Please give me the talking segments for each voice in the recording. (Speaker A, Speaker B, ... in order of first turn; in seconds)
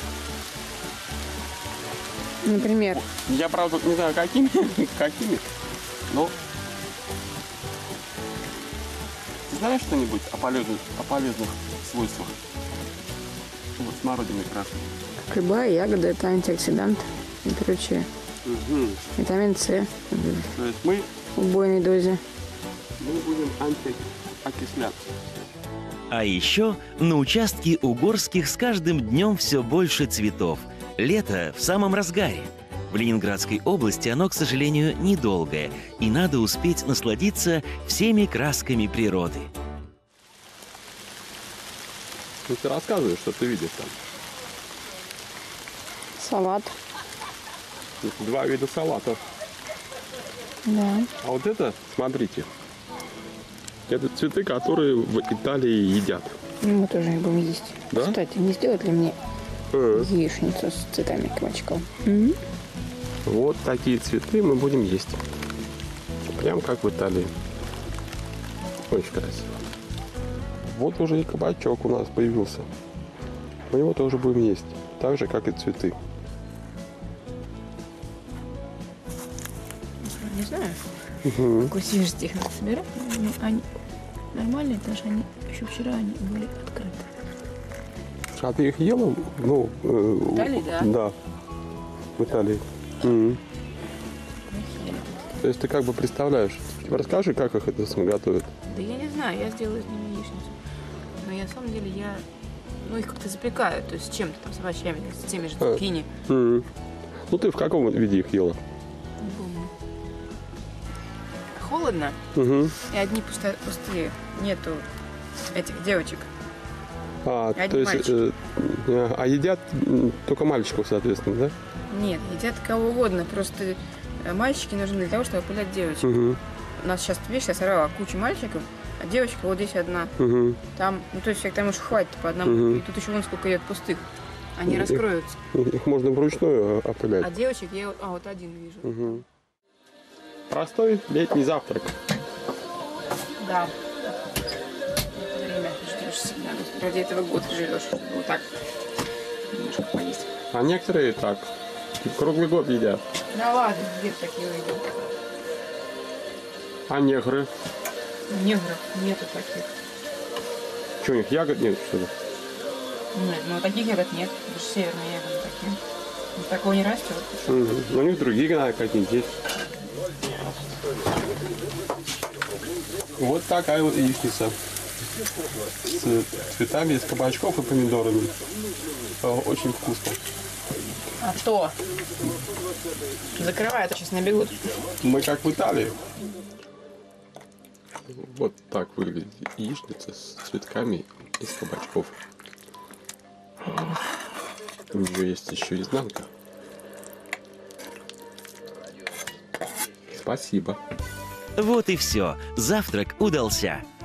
Speaker A: 2.4-3.0, 15.2-18.1, 19.2-20.5, 21.4-22.2, 46.2-46.7, 50.6-51.1, 56.6-59.1, 59.9-62.4, 80.0-80.8, 81.5-83.6, 84.3-87.1, 90.3-90.9, 94.5-95.2, 98.7-100.5, 101.2-102.2, 102.8-106.1, 109.2-109.7, 111.5-112.2, 112.9-114.8, 115.5-116.3, 117.5-118.2, 121.9-126.1, 126.8-130.1, 130.7-135.4, 137.2-138.9, 143.4-144.2, 145.1-148.6, 149.5-150.3, 153.3-154.9, 158.3-159.7, 163.1-165.8, 166.3-167.6, 181.2-181.8, 183.3-184.8
Speaker B: 2.5-5.5, 6.1-6.3, 9.5-12.4, 13.8-14.9, 18.4-19.0, 20.5-21.1, 23.0-25.0, 42.5-43.9, 48.0-49.2, 51.2-52.5, 53.9-56.4, 57.9-58.2, 59.7-60.1, 63.2-65.2, 66.3-67.3, 68.9-69.5, 70.6-72.7, 73.7-76.0, 81.2-81.7, 88.3-91.1, 92.2-93.4, 95.4-98.5, 105.6-106.7, 107.3-108.6, 112.3-112.7, 117.2-121.5, 126.0-126.4, 130.2-130.6, 132.4-132.8, 134.7-137.3, 138.8-139.2, 140.5-141.9, 150.5-153.0, 156.9-157.5, 161.0-162.1, 167.5-169.3, 173.2-174.5, 175.8-178.3, 179.2-180.2, 185.0-185.9, 188.1-192.2, 194.9-196.3, 200.1-200.8
Speaker C: 26.1-39.5, 201.6-203.8